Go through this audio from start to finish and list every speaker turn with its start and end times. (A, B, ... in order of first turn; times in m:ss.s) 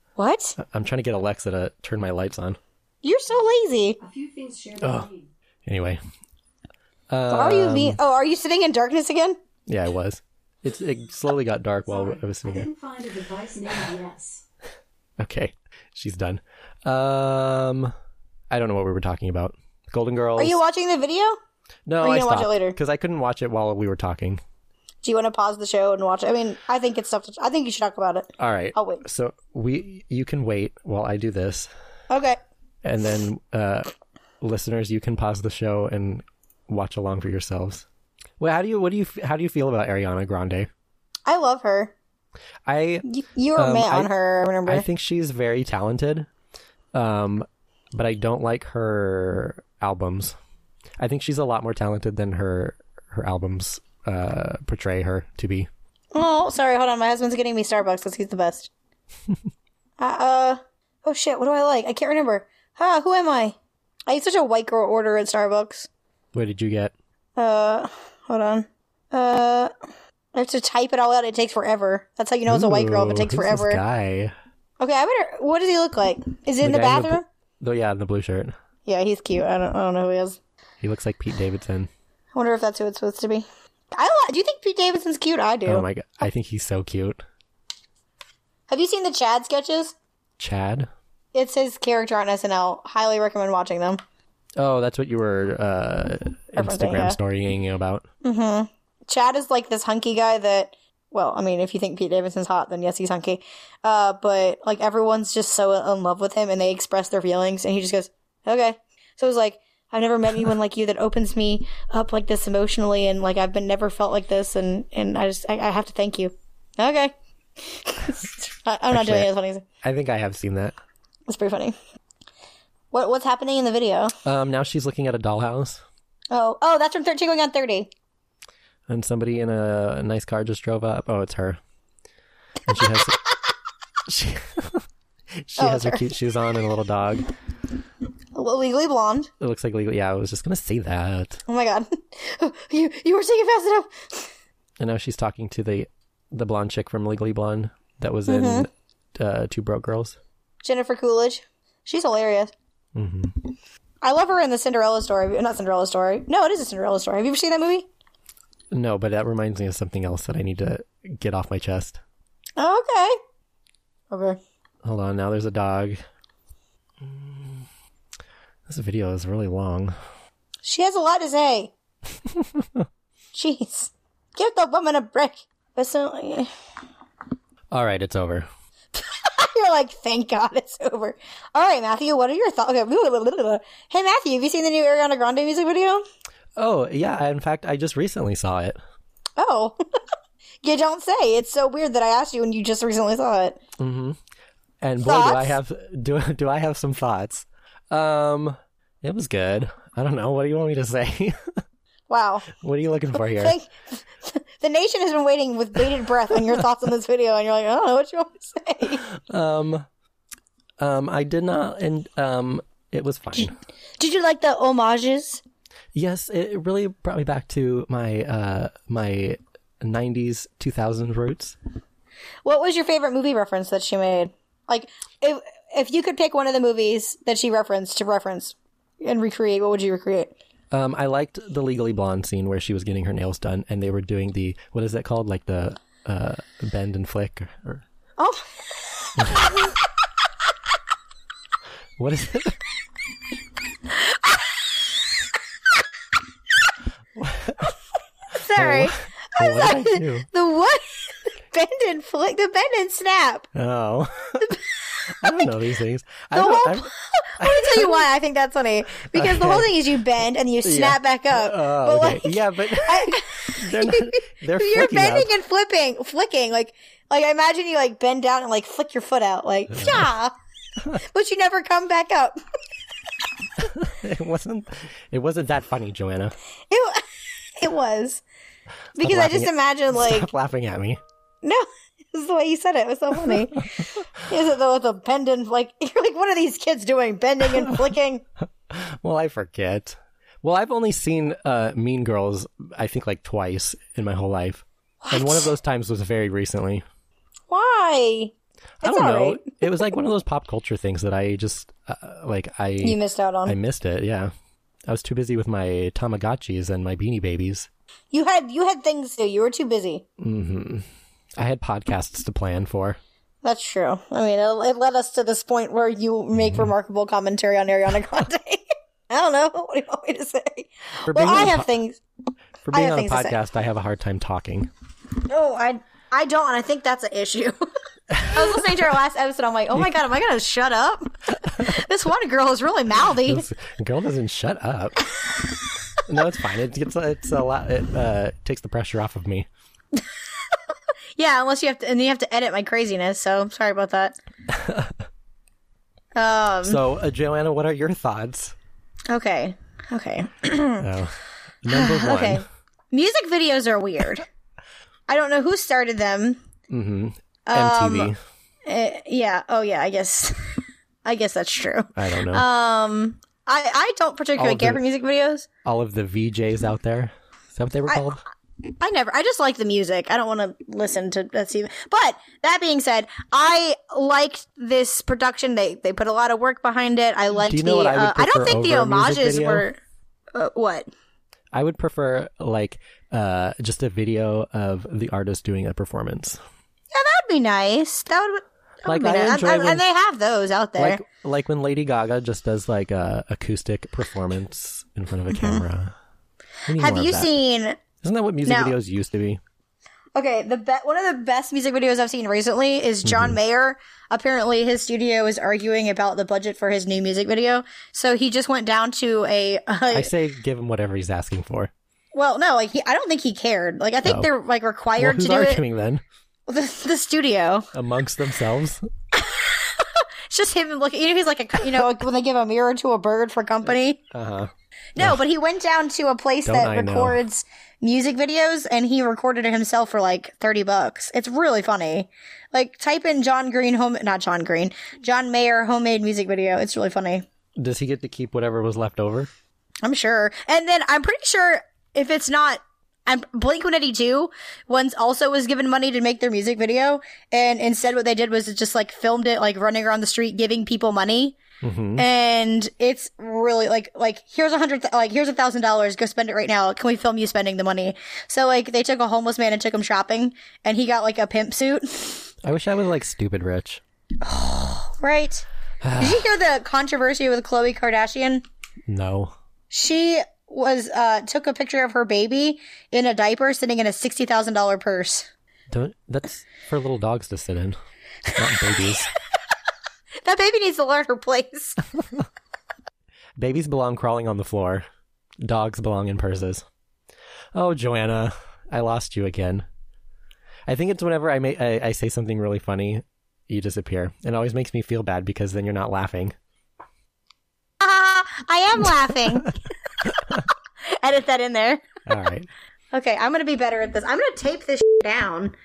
0:00.2-0:00.6 A
0:00.6-0:02.6 B
0:03.0-0:04.0 A
0:04.0-0:05.3 C
0:04.8-0:05.1 B
0:05.7-0:06.0 B
0:07.1-0:08.0 B
0:07.3-0:09.4 A
0:09.7-0:12.7 B
0:11.9-0:14.4 C
0:15.2-0:17.9 B
0:18.5-0:20.6 B
0:20.4-0:21.4 A
0:21.9-0:24.4 B
0:22.0-0:22.8 A
0:25.0-0:29.0 A
0:28.4-0:31.7 B
0:32.1-0:32.4 A
0:32.8-0:33.9 B
0:34.4-0:37.8 B
0:38.4-0:40.7 B
0:41.3-0:41.9 A
0:42.7-0:44.1 B
0:43.1-0:44.9 A
0:44.7-0:46.3 B
0:46.9-0:50.4 B
0:51.0-0:55.7 B
0:56.1-0:58.7 A
1:00.0-1:03.6 A
1:04.1-1:05.9 A
1:06.3-1:06.9 B
1:07.4-1:09.7 A
1:10.3-1:13.8 A
1:12.5-1:14.3 B
1:14.8-1:17.2 A
1:16.6-1:18.6 B
1:18.8-1:20.4 A
1:20.8-1:21.9 B
1:22.3-1:25.9 A
1:25.7-1:27.2 B
1:28.7-1:30.0 A
1:30.4-1:30.9 B
1:31.3-1:34.0 A
1:34.6-1:38.1 B
1:36.6-1:37.2 A
1:38.2-1:59.6 A
1:58.9-1:59.3 B
1:59.8-2:00.8 B
2:01.3-2:01.8 A
2:02.9-2:04.2 A
2:04.2-2:05.8 B
2:06.3-2:07.9 A
2:08.9-2:11.6 B
2:12.7-2:13.2 B
2:12.7-2:13.0 A
2:14.1-2:14.8 B
2:15.4-2:17.3 B
2:15.6-2:16.1 A
2:18.3-2:19.3 A
2:19.4-2:21.4 B
2:21.5-2:24.3 A
2:24.8-2:30.2 B
2:28.3-2:28.7 A
2:30.6-2:32.5 A
2:33.0-2:33.4 B
2:34.0-2:37.9 A
2:38.7-2:42.0 B
2:42.6-2:43.2 A
2:44.1-2:44.4 A
2:44.8-2:46.0 B
2:47.0-2:47.7 B
2:48.7-2:50.0 B
2:50.6-2:51.7 A
2:52.4-2:52.9 B
2:53.3-2:56.5 A
2:57.7-2:58.5 B
2:58.9-3:06.0 A
3:06.6-3:08.8 B
3:09.4-3:09.8 A
3:10.6-3:13.6 A
3:13.8-3:14.2 B
3:14.8-3:21.6 B
3:15.0-3:15.6 A
3:22.1-3:22.5 A
3:22.5-3:23.6 B
3:23.2-3:29.0 A
3:29.0-3:29.9 B
3:30.8-3:33.6 B
3:34.0-3:35.4 A
3:35.9-3:41.6 B
3:42.4-3:50.3 A
3:50.7-3:57.8 B
3:58.2-3:59.7 A
3:59.2-3:59.6 B
4:02.0-4:02.6 B
4:03.9-4:04.6 A
4:07.2-4:07.7 B
4:08.3-4:13.5 A
4:08.5-4:10.3 B
4:13.5-4:18.0 B
4:14.4-4:15.5 A
4:16.3-4:30.3 A
4:19.0-4:19.8 B
4:20.6-4:25.3 B
4:29.8-4:30.0 B
4:30.9-4:32.4 A
4:33.6-4:36.4 B
4:36.7-4:38.2 A
4:39.0-4:40.3 A
4:39.0-4:41.0 B
4:41.4-4:48.2 A
4:48.7-4:56.8 B
4:55.0-4:55.5 A
4:57.5-4:59.5 A
4:58.8-5:04.3 B
5:02.8-5:03.6 A
5:04.9-5:07.7 B
5:08.1-5:10.0 A
5:10.2-5:10.9 B
5:11.4-5:13.0 B
5:13.4-5:22.0 A
5:16.4-5:16.7 B
5:21.0-5:21.7 B
5:22.6-5:24.7 B
5:22.7-5:23.4 A
5:25.2-5:27.7 A
5:28.1-5:28.6 B
5:28.2-5:33.5 A
5:33.2-5:35.0 B
5:36.0-5:39.5 B
5:41.2-5:44.2 A
5:44.5-5:44.9 B
5:46.2-5:46.8 A
5:46.6-5:48.6 B
5:49.1-5:50.9 A
5:50.8-5:52.4 B
5:51.7-5:54.2 A
5:55.1-5:56.4 A
5:56.7-5:58.2 B
5:57.5-5:58.1 A
5:58.7-6:00.4 A
6:01.0-6:05.5 A
6:02.0-6:02.5 B
6:04.4-6:04.8 B
6:05.6-6:08.2 B
6:08.6-6:19.8 A
6:17.3-6:19.7 B
6:20.3-6:20.9 A
6:21.5-6:26.4 B
6:26.9-6:31.0 A
6:28.9-6:29.8 B
6:30.8-6:35.9 B
6:35.3-6:35.6 A
6:36.7-6:37.3 B
6:36.8-6:37.8 A
6:38.0-6:39.4 B
6:38.5-6:38.8 A
6:40.2-6:50.1 A
6:43.0-6:43.4 B
6:49.9-6:51.7 B
6:52.1-6:55.6 A
6:55.0-6:56.0 B
6:56.5-6:57.7 A
6:57.7-6:58.8 B
6:59.1-7:04.0 A
7:04.1-7:05.2 B
7:05.0-7:17.3 A
7:06.4-7:07.2 B
7:17.6-7:19.3 B
7:19.8-7:31.4 A
7:31.6-7:32.1 B
7:32.0-7:42.3 A
7:42.4-7:43.8 B
7:44.2-7:45.4 A
7:45.8-7:46.2 B
7:46.0-7:48.4 A
7:48.9-7:49.3 B
7:49.7-7:55.3 A
7:55.7-7:57.8 B
7:58.3-7:59.1 B
8:00.2-8:01.8 A
8:03.4-8:04.8 B
8:05.4-8:06.6 B
8:07.5-8:09.7 B
8:10.7-8:16.4 B
8:17.8-8:21.9 A
8:22.1-8:22.5 B
8:22.9-8:25.6 A